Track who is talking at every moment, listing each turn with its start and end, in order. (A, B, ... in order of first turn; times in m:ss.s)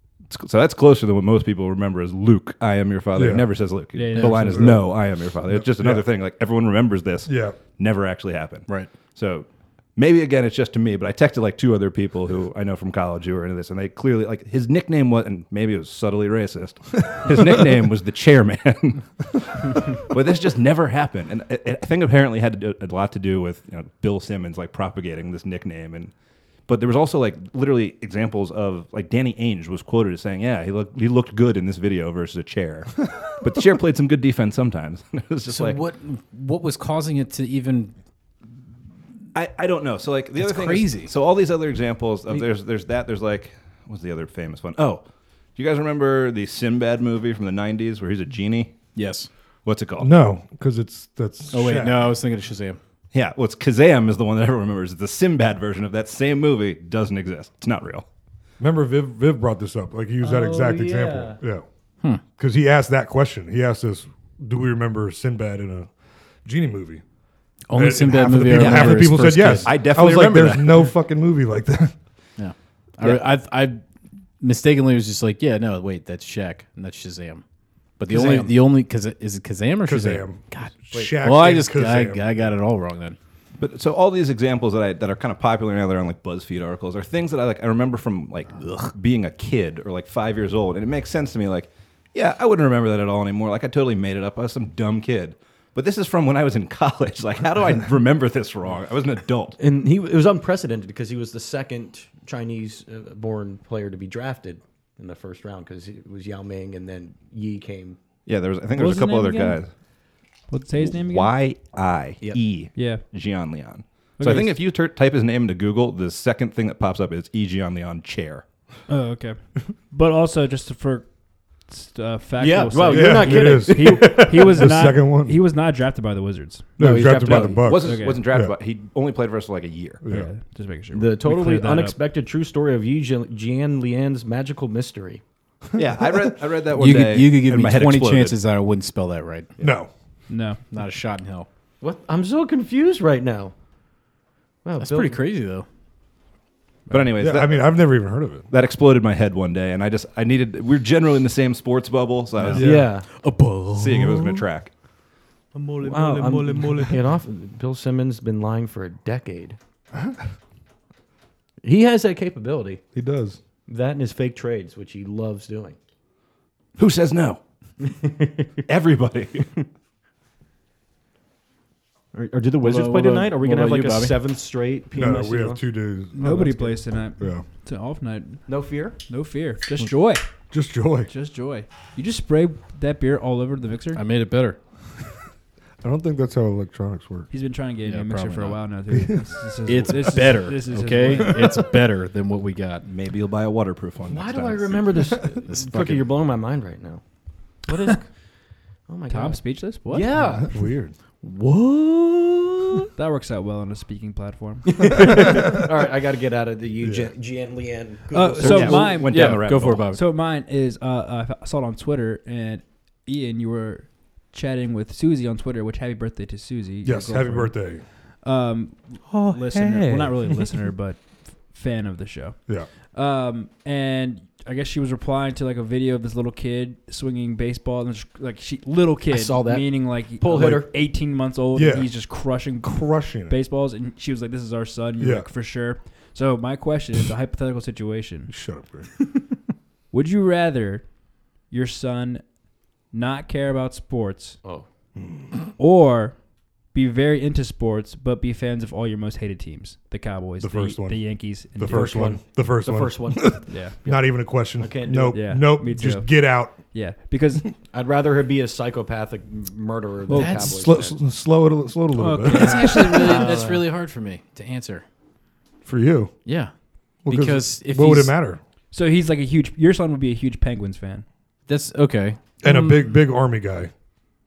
0:00.3-0:26.1 A
0:03.2-0:03.5 B
0:03.9-0:04.8 C
0:04.1-0:04.7 D
0:04.5-0:04.9 B
0:05.5-0:06.0 B
0:07.3-0:07.6 B
0:08.7-0:08.9 D
0:26.7-0:35.8 A
0:35.5-0:37.9 D
0:39.3-0:45.0 A
0:40.4-0:41.1 D
0:45.6-0:48.9 A
0:49.0-0:49.3 D
0:49.6-0:50.1 A
0:50.0-0:52.1 B
0:51.5-0:52.8 D
0:53.1-0:58.1 A
0:58.6-1:01.6 B
1:00.2-1:01.4 E
1:02.4-1:05.9 B
1:06.4-1:07.0 B
1:07.7-1:09.9 D
1:07.7-1:12.0 B
1:08.5-1:10.9 A
1:12.4-1:13.8 D
1:14.4-1:17.4 D
1:18.0-1:23.2 D
1:18.1-1:18.6 E
1:19.8-1:22.5 B
1:23.6-1:39.6 A
1:39.6-1:48.0 E
1:48.3-1:49.7 A
1:48.7-1:49.6 C
1:50.5-1:51.3 C
1:50.8-1:58.4 A
1:52.8-1:53.0 C
1:54.2-1:54.5 C
1:58.9-2:08.2 C
2:02.4-2:04.6 E
2:02.9-2:05.4 B
2:06.8-2:08.6 B
2:06.8-2:07.3 D
2:07.4-2:10.0 A
2:10.0-2:10.3 B
2:10.0-2:12.0 C
2:10.9-2:15.2 E
2:15.8-2:18.4 A
2:16.7-2:19.5 D
2:19.6-2:19.9 B
2:20.3-2:20.6 C
2:20.7-2:21.5 D
2:21.8-2:23.5 E
2:24.6-2:25.2 E
2:24.8-2:25.7 D
2:26.9-2:32.7 A
2:27.2-2:28.5 B
2:32.5-2:32.9 B
2:32.5-2:33.1 E
2:32.6-2:34.4 D
2:33.7-2:34.7 A
2:35.6-2:36.8 D
2:35.8-2:39.6 E
2:41.6-2:42.8 E
2:42.9-2:43.4 B
2:43.7-2:45.8 E
2:46.8-2:47.4 A
2:47.8-2:48.5 E
2:48.7-2:49.5 A
2:52.1-2:55.6 E
2:52.6-2:54.2 D
2:54.9-2:57.5 B
2:56.2-3:00.2 C
2:58.5-2:59.0 E
3:00.5-3:01.1 B
3:01.1-3:04.0 C
3:03.9-3:04.6 D
3:05.8-3:07.3 B
3:07.3-3:11.5 C
3:07.9-3:08.6 D
3:08.9-3:09.3 B
3:09.7-3:12.9 D
3:12.9-3:15.1 A
3:14.1-3:17.0 E
3:15.4-3:16.1 D
3:17.6-3:20.6 E
3:19.1-3:20.4 C
3:20.4-3:20.9 B
3:21.2-3:22.8 D
3:23.0-3:25.1 C
3:24.7-3:29.0 E
3:26.8-3:27.1 B
3:28.1-3:58.3 C
3:28.4-3:29.9 A
3:28.9-3:30.0 D
3:36.8-3:37.9 B
3:39.1-3:40.2 E
3:49.1-3:50.7 E
3:51.5-3:52.1 B
3:52.6-3:53.4 B
3:55.0-3:55.3 B
3:58.3-3:58.9 B
3:59.9-4:02.3 C
4:02.9-4:04.4 C
4:05.0-4:05.3 B
4:05.6-4:12.2 C
4:10.4-4:16.6 B
4:11.7-4:15.2 E
4:13.5-4:13.8 C
4:15.1-4:17.4 C
4:17.7-4:21.0 E
4:20.1-4:20.4 C
4:20.1-4:20.5 D
4:20.4-4:23.0 B
4:22.0-4:23.5 C
4:22.2-4:24.8 D
4:23.0-4:23.7 E
4:25.6-4:26.2 B
4:26.3-4:28.2 D
4:27.1-4:28.4 B
4:28.7-4:31.1 C
4:31.5-4:32.9 D
4:32.4-4:33.7 B